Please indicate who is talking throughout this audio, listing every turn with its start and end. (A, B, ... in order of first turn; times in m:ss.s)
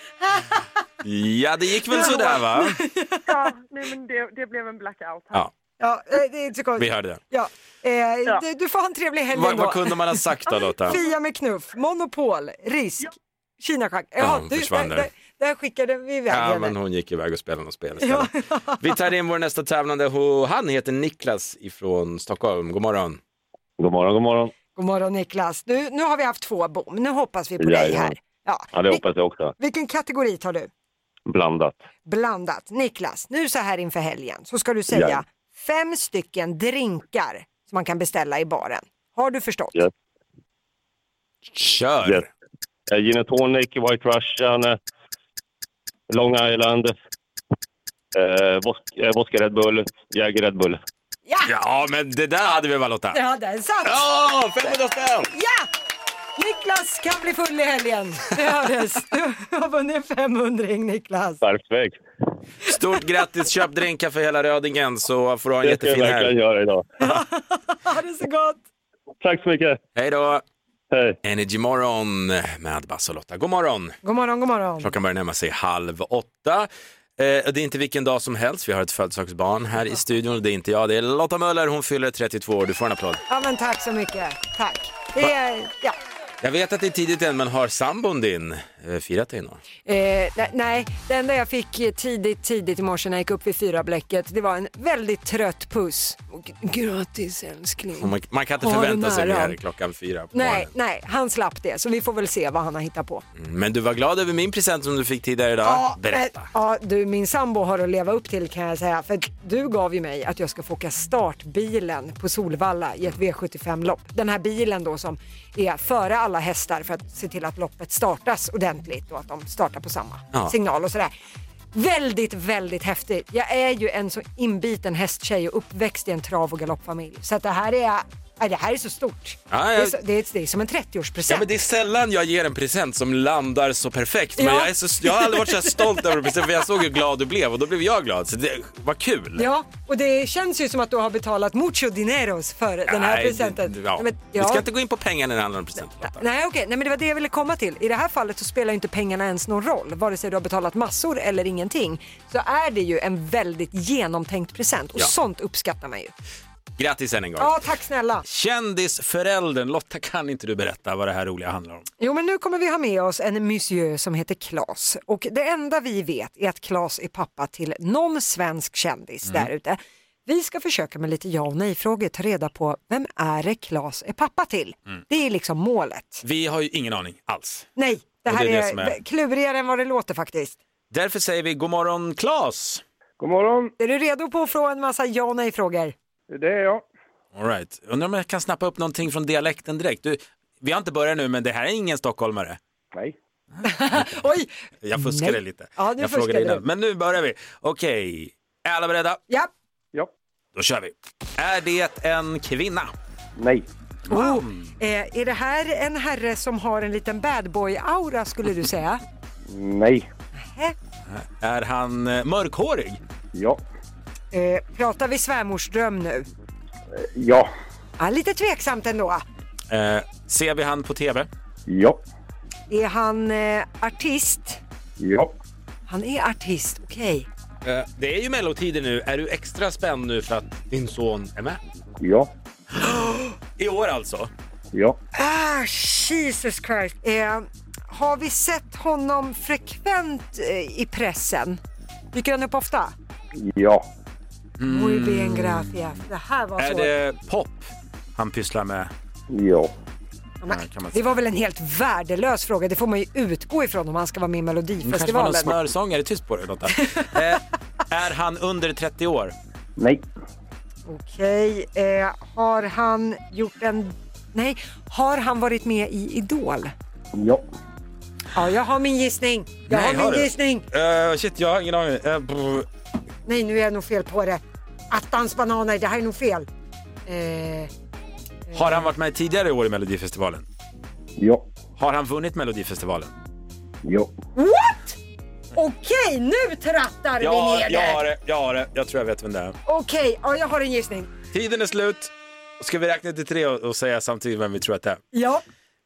0:01.0-0:02.8 A
0:01.9-0:03.2 B
0:03.2-0:05.5 C
0:05.8-0:10.1 B
0:06.8-0:07.2 A
0:09.3-0:11.0 A
0:10.8-0:16.8 B
0:14.2-0:15.1 A
0:16.3-0:23.2 A
0:18.0-0:18.8 B
0:23.8-0:24.5 D
0:24.8-0:29.1 B
0:27.6-0:28.1 D
0:28.7-0:29.5 D
0:29.6-0:30.7 B
0:31.3-0:31.8 D
0:32.1-0:39.8 B
0:34.9-0:35.2 D
0:41.6-0:42.3 A
0:42.9-0:44.8 D
0:46.1-0:46.9 D
0:48.2-0:50.8 D
0:51.4-0:53.2 A
0:53.1-0:54.0 B
0:53.8-0:55.3 A
0:55.3-0:55.7 B
0:56.4-1:01.4 B
1:01.4-1:02.0 D
1:02.7-1:06.3 A
1:05.6-1:06.8 D
1:07.0-1:08.6 B
1:09.2-1:09.8 D
1:10.0-1:10.4 A
1:10.9-1:11.2 D
1:11.2-1:14.0 A
1:14.0-1:14.9 B
1:14.8-1:23.2 A
1:23.3-1:26.0 B
1:26.4-1:29.6 A
1:29.8-1:39.6 B
1:38.0-1:40.7 A
1:40.3-1:43.2 B
1:43.4-1:46.5 A
1:45.6-2:01.1 B
2:01.7-2:11.5 B
2:09.5-2:10.0 A
2:11.3-2:19.5 A
2:14.4-2:16.0 B
2:19.4-2:24.6 B
2:22.9-2:26.2 A
2:26.0-2:36.1 B
2:36.8-2:37.5 A
2:37.4-2:38.2 B
2:38.2-2:41.9 A
2:42.0-2:56.2 B
2:56.2-2:57.7 A
2:57.8-3:00.6 B
2:58.3-2:59.0 A
3:00.9-3:02.8 A
3:03.2-3:03.7 E
3:03.8-3:05.9 B
3:06.3-3:06.8 E
3:07.4-3:12.6 A
3:13.6-3:16.6 B
3:14.8-3:19.2 A
3:20.6-3:22.9 A
3:23.4-3:23.7 E
3:24.1-3:24.6 A
3:24.1-3:29.0 B
3:29.5-3:30.1 E
3:30.4-3:30.8 B
3:31.1-3:33.0 A
3:33.3-3:33.6 E
3:34.3-3:36.3 B
3:37.0-3:37.5 E
3:38.0-3:39.2 B
3:39.7-3:41.3 A
3:41.7-3:42.0 E
3:42.7-3:44.6 B
3:45.0-3:45.4 E
3:45.9-3:47.3 B
3:47.6-3:51.6 A
3:52.0-3:52.3 E
3:52.8-3:54.3 A
3:54.7-3:55.0 E
3:55.2-4:01.6 B
4:02.1-4:02.9 B
4:03.3-4:03.9 E
4:04.6-4:06.0 A
4:04.7-4:06.9 B
4:06.6-4:08.9 A
4:09.3-4:09.7 E
4:10.4-4:15.6 B
4:10.5-4:11.0 A
4:14.8-4:19.3 A
4:19.8-4:20.1 E
4:20.9-4:26.7 B
4:27.1-4:27.5 E
4:28.4-4:30.6 B
4:29.7-4:32.7 A
4:33.3-4:36.5 B
4:37.1-4:37.7 B
4:38.5-4:38.8 B
4:38.5-4:40.4 A
4:41.2-4:41.4 E
4:41.8-4:43.1 A
4:43.8-4:44.1 E
4:44.4-4:45.0 B
4:45.5-4:48.0 B
4:47.2-4:49.6 A
4:49.7-4:51.1 B
4:51.3-4:55.0 A
4:55.1-4:55.4 B